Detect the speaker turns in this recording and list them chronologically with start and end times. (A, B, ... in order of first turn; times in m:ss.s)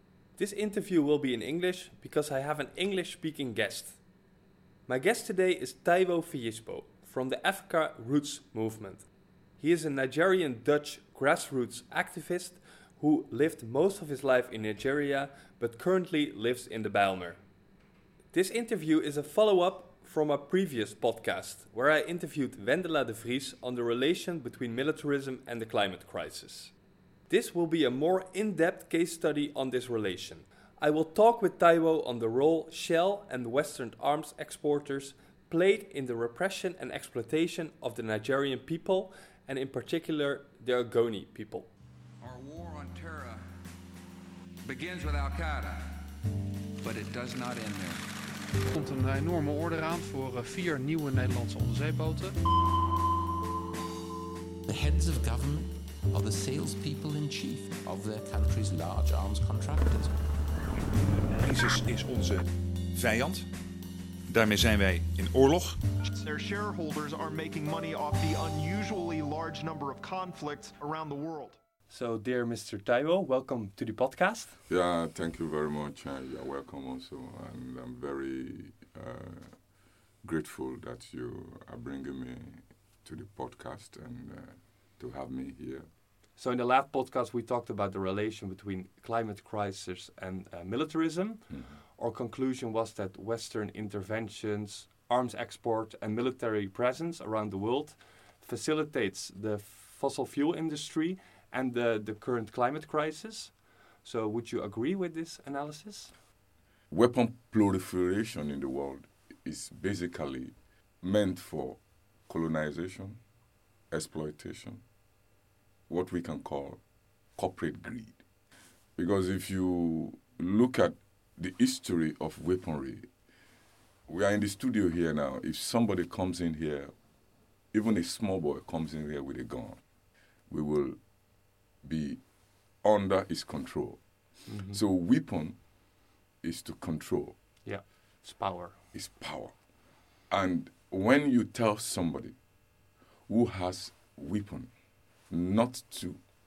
0:00.4-0:04.0 A
0:04.9-0:09.1 A
0:09.6-0:17.4 A
0:18.3-0:26.7 A
0:27.3-0:41.7 A
0:42.2-0:43.4 B
0:44.6-0:46.0 B
0:46.8-0:48.0 B
0:48.7-0:52.4 C
0:54.6-1:00.1 D
1:01.2-1:03.5 E
1:04.3-1:05.8 E
1:06.1-1:11.6 F
1:11.9-1:14.6 A
1:14.7-1:19.6 G
1:20.2-1:25.9 G
1:26.4-1:46.1 A
1:31.5-1:31.8 G
1:46.9-1:53.2 G
1:53.9-1:54.8 G
1:55.9-1:56.8 G
1:57.4-1:58.2 G
1:59.0-2:03.1 G
2:04.1-2:06.9 G
2:07.7-2:09.8 G
2:10.5-2:11.0 G
2:11.8-2:12.2 G
2:12.8-2:14.0 G
2:14.5-2:14.8 A
2:14.6-2:15.6 G
2:16.4-2:17.4 G
2:17.6-2:18.8 A
2:18.9-2:19.5 G
2:20.3-2:22.4 G
2:23.3-2:24.7 G
2:25.3-2:26.2 G